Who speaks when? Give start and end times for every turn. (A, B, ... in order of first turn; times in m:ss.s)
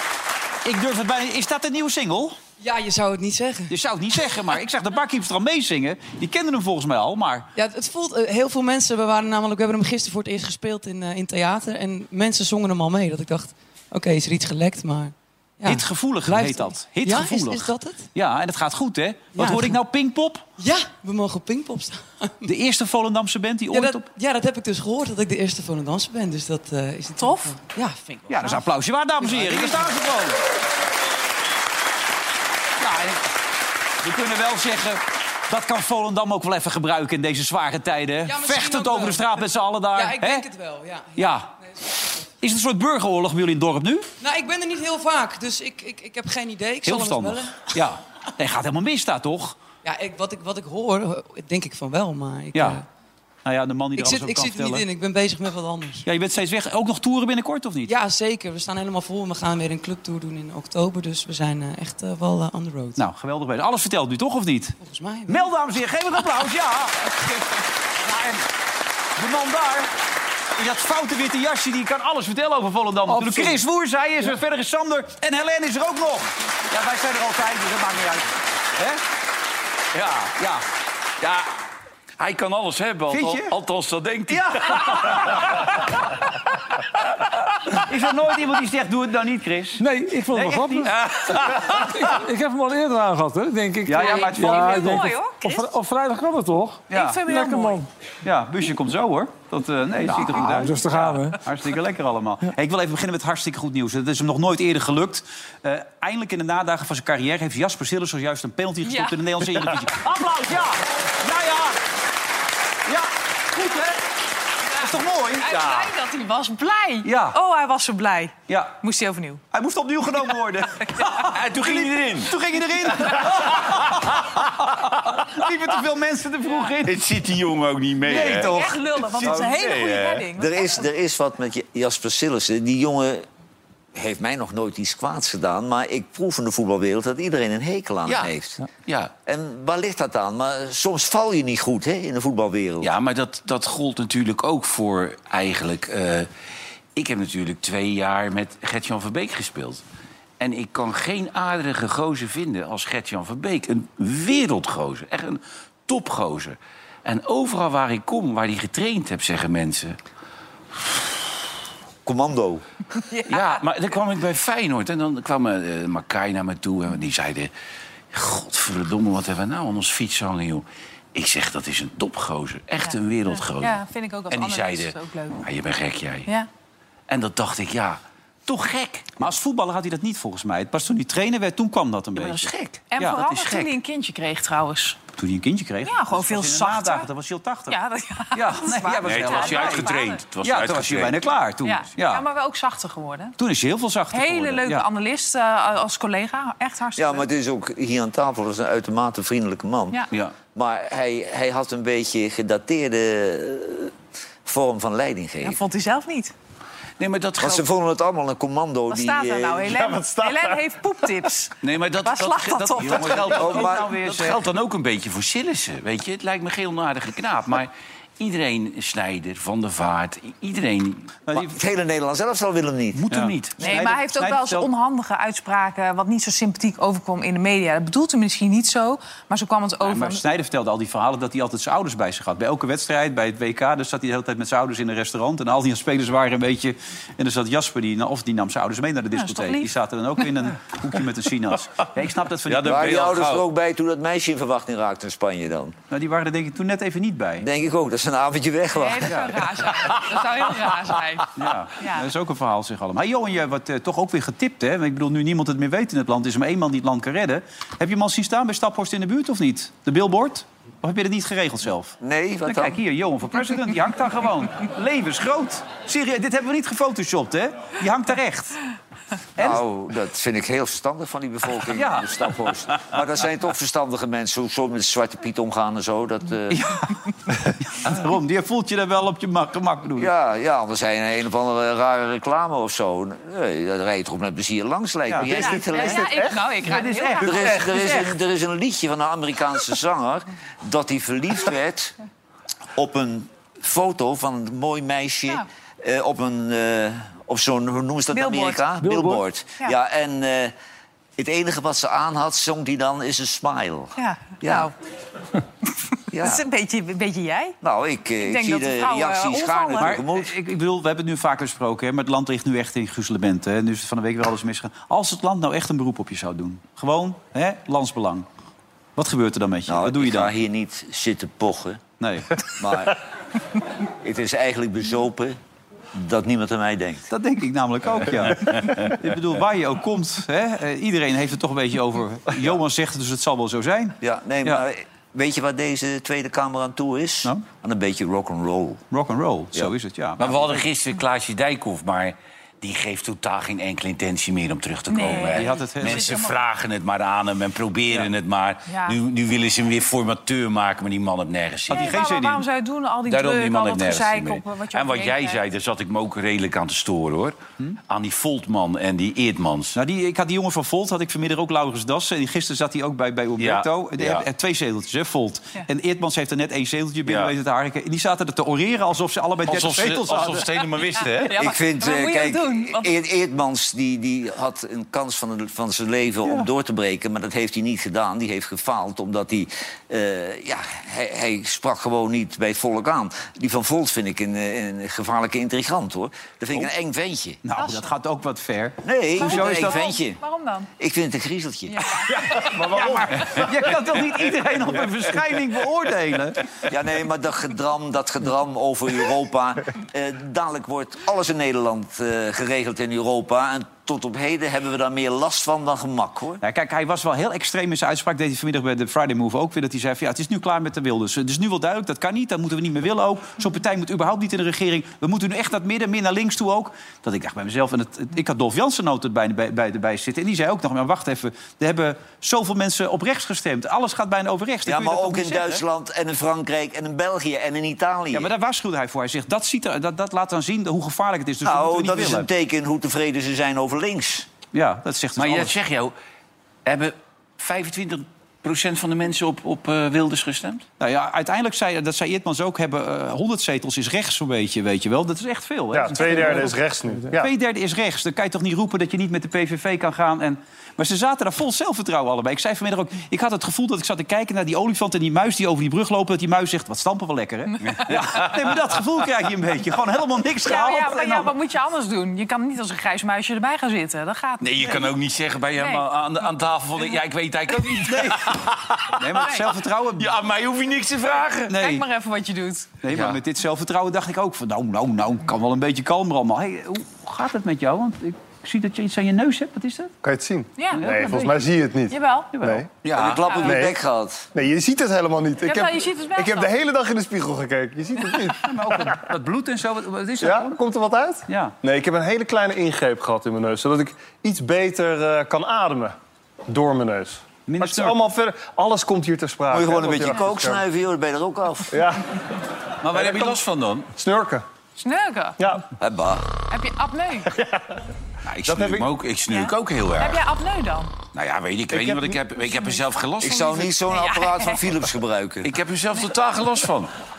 0:00.6-0:02.4 A
0:02.6-0:03.7 B
0:03.7-0:07.5 A
0:07.6-0:18.1 B
0:15.6-0:20.5 A
0:19.4-0:19.8 B
0:20.6-0:22.5 B
0:22.4-0:24.1 A
0:23.7-0:28.6 B
0:27.2-0:27.6 C
0:28.3-0:30.4 A
0:32.8-0:33.2 A
0:34.0-0:40.5 A
0:38.2-0:41.6 B
0:41.2-0:41.5 A
0:42.4-0:44.1 A
0:44.2-0:47.8 B
0:46.8-0:49.6 A
0:49.8-0:52.9 B
0:52.5-0:52.8 A
0:53.4-0:54.9 A
0:54.0-0:56.1 B
0:56.0-0:58.0 A
0:57.9-1:03.0 B
1:03.0-1:07.3 A
1:04.8-1:05.5 B
1:08.0-1:08.5 A
1:09.2-1:09.9 A
1:10.6-1:19.0 A
1:13.2-1:13.6 D
1:19.9-1:20.6 A
1:21.2-1:21.5 E
1:22.2-1:25.6 E
1:23.1-1:23.5 A
1:24.3-1:25.4 A
1:27.8-1:30.9 A
1:29.8-1:37.9 D
1:30.9-1:31.8 E
1:33.9-1:35.1 A
1:33.9-1:35.8 C
1:36.9-1:37.2 A
1:36.9-1:37.8 C
1:38.2-1:51.8 A
1:40.2-1:41.4 D
1:40.3-1:40.7 C
1:48.8-1:49.2 C
1:52.9-1:54.0 A
1:54.7-1:59.4 C
1:54.8-1:55.9 A
1:57.0-1:57.4 A
1:58.5-1:58.8 A
1:59.5-2:07.0 A
2:01.2-2:02.3 E
2:03.0-2:04.1 E
2:06.8-2:10.3 E
2:08.0-2:10.9 C
2:08.1-2:08.7 A
2:10.4-2:13.2 F
2:14.0-2:18.6 F
2:18.1-2:18.3 E
2:18.9-2:19.1 E
2:19.3-2:22.9 F
2:22.8-2:26.3 E
2:27.0-2:29.8 E
2:30.4-2:40.0 E
2:42.0-2:42.6 F
2:43.0-2:43.6 C
2:43.3-2:47.5 E
2:48.1-2:53.8 E
2:52.9-2:55.4 C
2:54.3-2:56.3 E
2:57.1-2:59.2 E
2:59.2-3:03.2 A
3:02.2-3:03.7 E
3:02.9-3:05.0 C
3:05.2-3:07.8 A
3:05.8-3:07.1 C
3:07.7-3:10.2 C
3:08.3-3:12.2 A
3:09.0-3:11.2 E
3:11.6-3:13.4 C
3:13.4-3:14.9 A
3:14.1-3:17.3 C
3:17.0-3:20.0 F
3:20.5-3:23.9 F
3:24.4-3:25.6 F
3:25.4-3:26.3 C
3:27.0-3:27.7 E
3:27.4-3:29.8 F
3:28.9-3:33.3 C
3:29.7-3:30.7 G
3:31.6-3:41.2 E
3:32.8-3:34.4 A
3:33.3-3:33.9 F
3:41.3-3:41.6 A
3:41.3-3:43.1 F
3:43.0-3:44.7 A
3:43.1-3:43.6 E
3:43.6-3:50.2 C
3:49.8-4:02.9 A
3:59.1-3:59.7 C
4:02.5-4:03.4 E
4:02.6-4:05.8 F
4:05.9-4:07.4 A
4:07.4-4:09.4 F
4:08.7-4:11.2 C
4:11.4-4:28.6 A
4:11.8-4:12.1 C
4:22.0-4:22.8 F
4:29.4-4:36.6 F
4:31.8-4:32.1 A
4:36.5-4:37.0 A
4:37.6-4:40.1 A
4:40.0-4:46.1 F
4:45.1-4:45.4 A
4:45.3-4:47.5 C
4:45.3-4:46.5 G
4:46.6-4:48.1 A
4:47.2-4:52.0 F
4:47.3-4:47.6 G
4:52.8-5:00.5 F
4:58.1-4:58.7 C
4:58.8-4:59.2 D
5:01.2-5:04.7 F
5:04.0-5:04.7 C
5:06.1-5:06.4 F
5:06.2-5:07.6 C
5:07.6-5:10.3 F
5:08.2-5:10.0 C
5:09.8-5:18.3 A
5:19.0-5:20.3 A
5:19.7-5:21.8 F
5:22.0-5:22.4 A
5:22.5-5:23.0 F
5:24.0-5:25.4 F
5:25.9-5:27.1 F
5:27.1-5:34.6 A
5:34.0-5:38.8 F
5:38.9-5:40.5 A
5:40.2-5:51.9 E
5:44.9-5:46.4 C
5:45.3-5:46.2 A
5:48.7-5:49.0 C
5:51.7-5:52.4 A
5:51.7-5:55.4 C
5:53.1-5:59.8 E
5:59.8-6:10.5 A
6:03.4-6:04.2 E
6:07.1-6:07.3 E
6:09.5-6:11.4 E
6:11.1-6:13.0 C
6:11.4-6:27.4 F
6:27.4-6:29.8 A
6:27.6-6:27.9 C
6:28.8-6:30.2 F
6:29.2-6:30.7 C
6:30.8-6:31.8 F
6:31.7-6:32.4 C
6:32.1-6:36.4 A
6:32.6-6:33.2 G
6:36.7-6:46.4 F
6:46.4-7:05.6 A
7:04.7-7:08.3 F
7:08.1-7:12.3 A
7:11.4-7:14.3 F
7:14.5-7:15.5 A
7:15.2-7:15.9 E
7:16.6-7:20.7 E
7:20.8-7:26.6 A
7:25.7-7:27.3 G
7:27.1-7:41.3 A
7:40.4-7:44.8 C
7:44.4-7:49.4 E
7:45.6-7:45.9 C
7:47.8-7:48.4 A
7:48.9-7:50.1 A
7:50.0-7:51.6 E
7:51.5-7:51.8 A
7:51.5-7:52.7 C
7:52.8-7:59.9 A
7:52.9-7:53.2 E
8:00.0-8:02.8 G
8:00.6-8:00.9 C
8:00.7-8:01.4 A
8:01.9-8:02.3 C
8:02.3-8:02.6 A
8:02.8-8:03.2 E
8:02.9-8:04.3 F
8:03.2-8:03.6 C
8:03.4-8:03.8 G
8:04.3-8:09.0 G
8:05.4-8:06.6 C
8:08.4-8:10.6 A
8:10.2-8:16.0 G
8:11.3-8:11.6 A
8:16.5-8:20.6 G
8:17.5-8:18.0 A
8:19.5-8:21.8 F
8:21.7-8:22.1 G
8:22.8-8:23.9 E
8:22.9-8:23.4 G
8:24.0-8:24.4 G
8:24.8-8:25.4 C
8:25.4-8:25.6 G
8:25.8-8:26.3 F
8:26.5-8:27.3 C
8:27.3-8:27.6 G
8:28.3-8:30.2 E
8:28.5-8:28.9 G
8:29.3-8:30.9 C
8:31.1-8:33.8 E
8:31.7-8:32.2 G
8:33.2-8:35.5 F
8:33.8-8:34.7 C
8:35.4-8:36.9 E